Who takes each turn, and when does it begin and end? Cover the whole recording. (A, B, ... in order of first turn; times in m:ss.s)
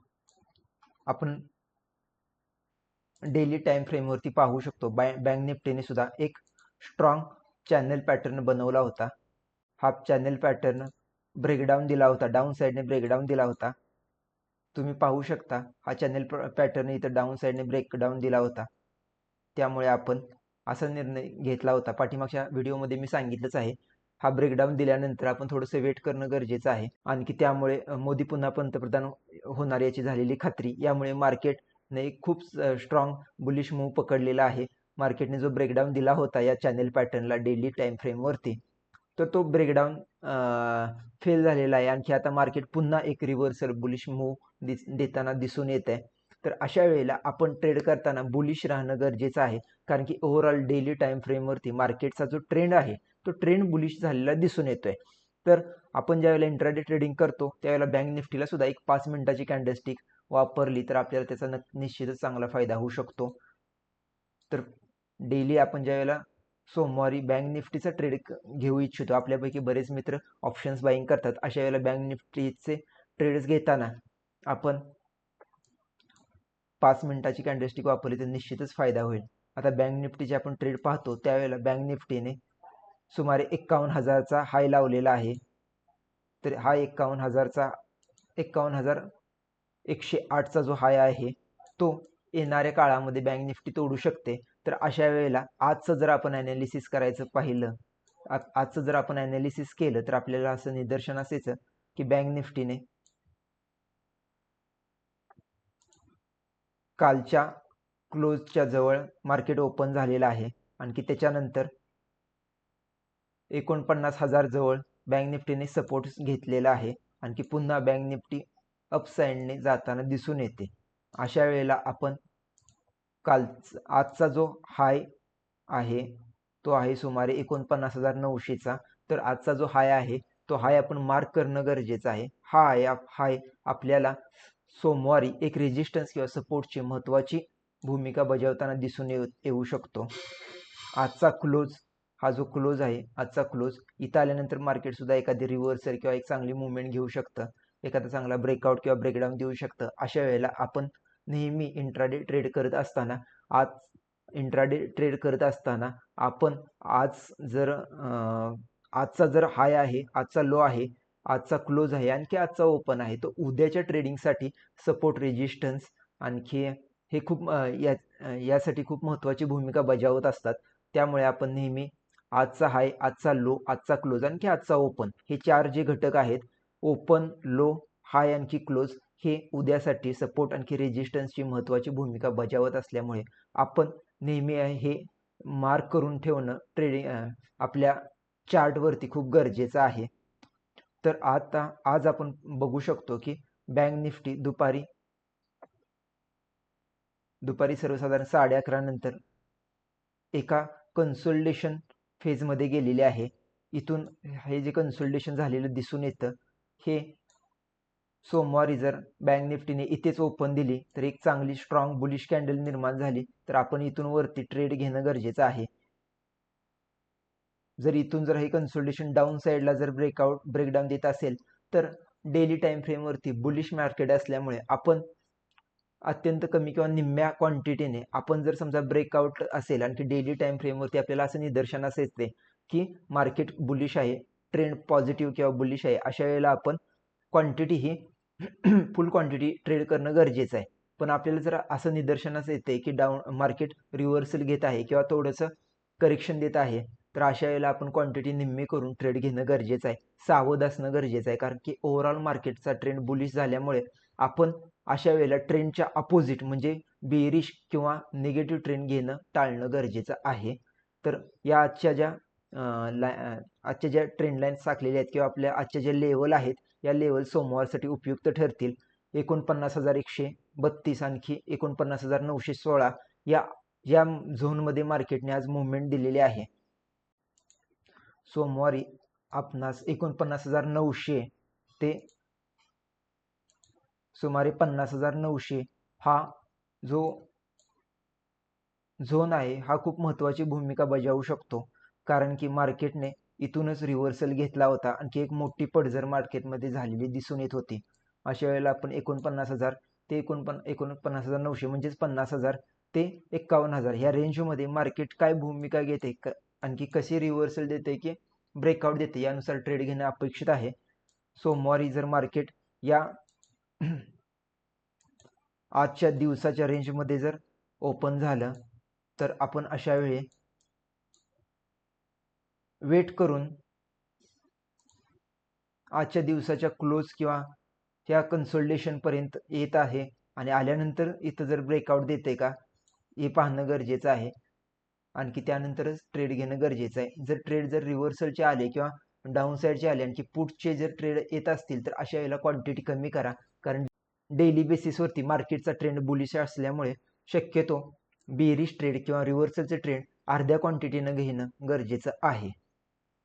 0:01.1-0:01.5 A
0:03.2-0:09.1 A
0:09.8-0:13.8 A
0:14.7-0:18.7 A
0:19.5-0:38.6 A
0:39.2-1:03.4 A
1:05.2-1:14.9 A
1:16.8-1:22.4 A
1:23.1-1:25.4 A
1:26.4-1:27.8 A
1:28.4-1:29.1 A
1:29.8-1:42.8 A
1:47.0-1:47.5 A
1:48.1-1:51.7 A
1:53.5-2:02.2 A
2:03.2-2:05.1 A
2:05.7-2:20.3 A
2:20.9-3:10.1 A
3:11.0-3:14.9 A
3:17.4-3:19.2 A
3:20.3-3:27.2 A
3:28.2-3:35.7 A
3:37.8-3:45.0 A
3:46.0-3:56.8 A
3:57.3-4:36.5 A
4:38.2-4:42.1 A
4:44.1-4:47.3 A
4:49.0-5:10.7 A
5:11.4-5:13.1 A
5:13.8-5:14.1 A
5:15.7-5:18.6 A
5:19.2-5:20.3 A
5:22.8-5:23.6 A
5:25.9-5:27.5 A
5:28.0-5:32.6 A
5:33.2-5:34.3 A
5:35.1-5:52.5 A